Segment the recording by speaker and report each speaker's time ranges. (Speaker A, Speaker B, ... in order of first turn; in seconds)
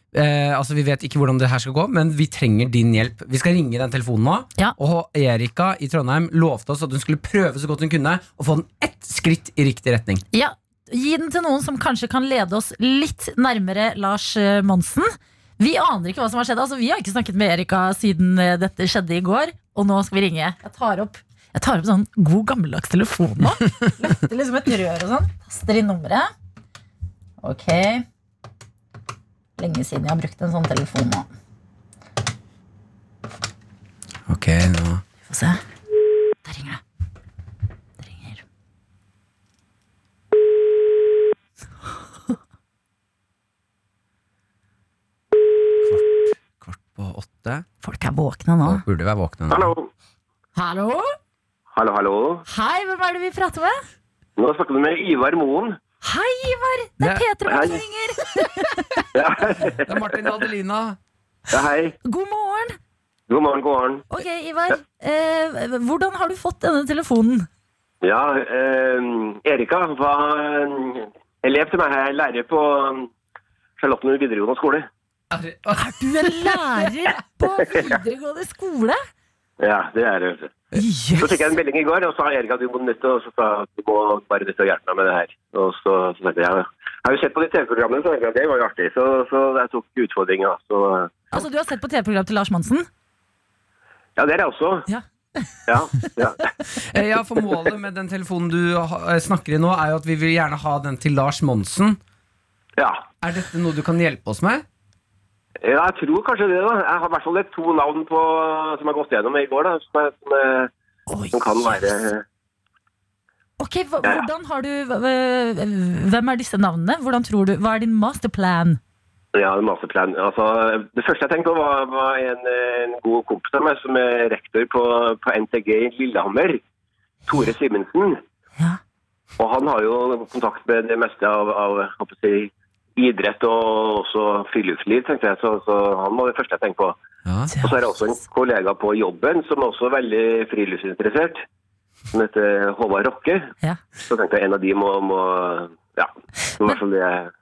Speaker A: 0.1-10.2, 34.3-35.0, 45.8-47.6, 48.6-49.7, 57.0-57.2, 59.7-61.0, 75.3-77.2, 96.9-102.0, 103.2-104.6, 137.2-137.5
Speaker B: 10.3-26.3, 27.4-28.1, 29.6-31.3, 35.3-35.6, 36.5-36.8, 38.0-38.4, 47.8-48.8, 50.6-51.1, 52.5-53.8, 56.0-59.0, 62.0-62.8, 64.1-67.5, 75.8-79.0, 80.7-81.4, 91.3-92.9, 94.9-96.1, 111.1-111.8, 113.6-118.8
Speaker C: 49.5-49.9, 51.7-52.4, 54.4-55.8, 57.5-57.8, 59.1-59.9, 61.5-62.0, 63.3-64.1, 68.0-73.1, 73.8-74.9, 79.6-80.6, 81.2-91.3, 94.2-94.8, 95.7-96.5, 102.8-103.1, 105.6-110.7, 111.3-112.2, 119.3-126.6, 127.3-128.2, 129.4-137.0, 137.6-141.4, 142.1-143.5, 144.1-147.3